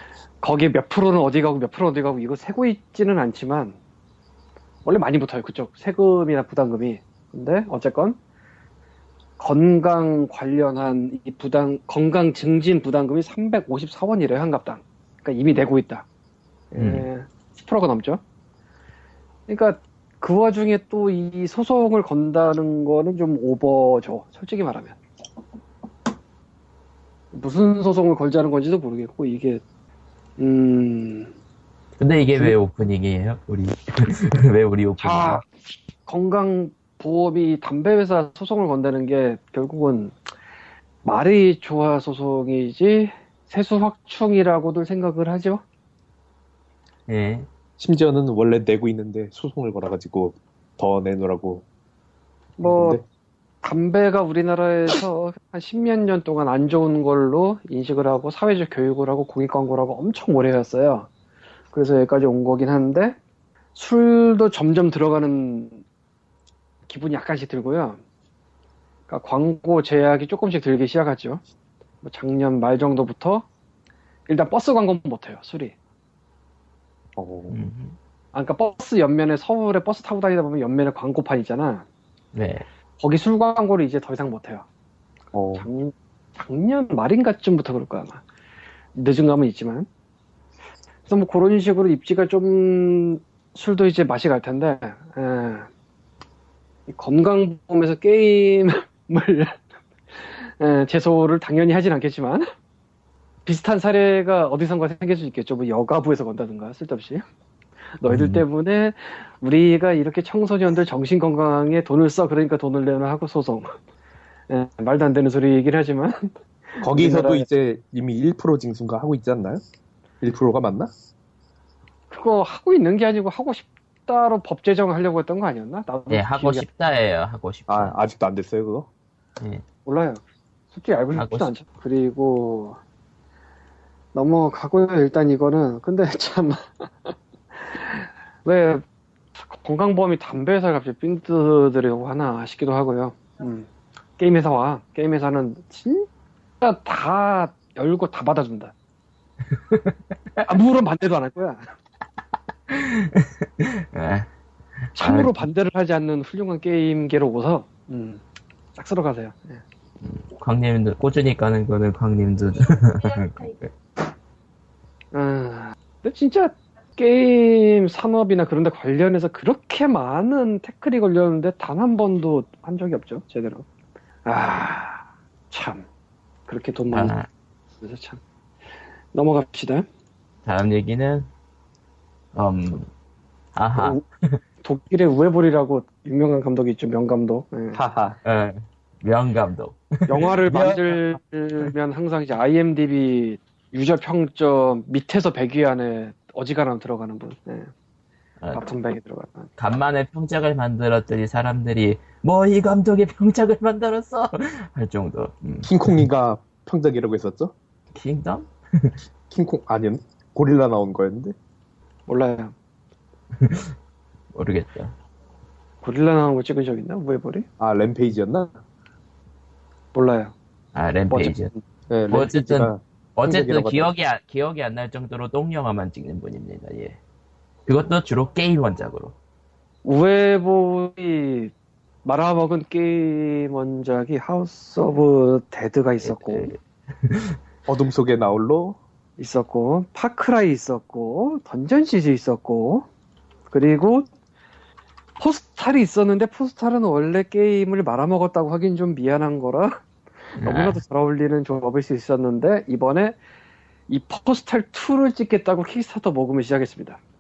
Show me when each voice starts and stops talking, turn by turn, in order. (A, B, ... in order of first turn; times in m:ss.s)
0:00.4-0:03.8 A
0:04.8-0:08.2 A
0:09.4-0:16.1 A
0:16.7-0:18.2 A
0:16.8-0:17.1 B
0:19.5-0:25.0 A
0:27.3-0:29.6 A
0:30.4-0:31.3 A
0:32.0-0:35.4 B
0:35.0-0:35.4 A
0:36.1-0:40.2 A
0:41.0-0:45.6 A
0:47.1-0:47.5 B
0:47.8-0:51.6 C
0:52.6-0:53.0 A
0:52.6-0:53.0 C
0:53.6-1:01.1 A
1:01.7-1:03.2 A
1:03.8-1:05.8 A
1:06.9-1:08.0 A
1:09.1-1:11.4 A
1:12.0-1:13.5 A
1:14.3-1:15.8 A
1:17.2-1:17.5 C
1:17.5-1:18.0 B
1:18.3-1:21.8 A
1:22.3-1:22.7 B
1:23.0-1:24.6 A
1:25.3-1:25.7 C
1:25.6-1:28.2 A
1:28.9-1:29.9 A
1:31.1-1:35.7 A
1:36.9-1:39.6 A
1:40.1-1:42.5 A
1:43.4-1:47.2 A
1:48.0-1:53.7 A
1:48.1-1:48.4 B
1:54.5-1:57.4 A
1:56.8-1:59.6 C
2:00.2-2:00.9 C
2:02.1-2:06.6 A
2:06.1-2:08.0 B
2:07.7-2:08.9 C
2:09.9-2:10.2 A
2:10.7-2:12.8 A
2:11.1-2:11.5 B
2:14.1-2:18.8 A
2:19.4-2:26.1 A
2:26.6-2:28.7 A
2:29.7-2:30.4 B
2:30.4-2:31.6 A
2:32.7-2:34.3 B
2:34.9-2:35.4 B
2:35.0-2:38.2 A
2:38.8-2:39.6 A
2:40.0-2:43.7 B
2:45.1-2:53.6 A
2:54.2-2:55.8 A
2:56.5-2:57.1 A
2:56.9-2:57.3 B
2:57.8-2:58.2 A
2:59.1-2:59.9 A
3:00.4-3:01.3 B
3:02.4-3:02.9 B
3:03.6-3:04.4 B
3:03.8-3:04.0 A
3:04.6-3:07.8 A
3:07.7-3:08.2 C
3:08.2-3:10.9 B
3:10.1-3:17.7 A
3:18.4-3:18.7 B
3:18.5-3:19.5 A
3:19.6-3:26.0 B
3:25.6-3:27.5 C
3:27.9-3:29.0 B
3:29.3-3:31.4 C
3:32.1-3:32.5 A
3:33.4-3:33.7 B
3:34.3-3:34.9 B
3:35.8-3:37.4 A
3:37.6-3:38.5 C
3:39.9-3:40.3 A
3:40.8-3:41.5 B
3:41.1-3:41.6 A
3:41.9-3:43.9 C
3:42.1-3:47.0 B
3:47.7-3:49.1 B
3:49.8-3:51.5 A
3:52.0-3:56.5 A
3:56.0-3:57.4 B
3:57.7-3:58.8 C
3:59.2-4:02.9 A
4:03.5-4:04.1 A
4:05.2-4:09.7 A
4:10.4-4:10.8 B
4:10.4-4:13.2 A
4:13.9-4:17.0 A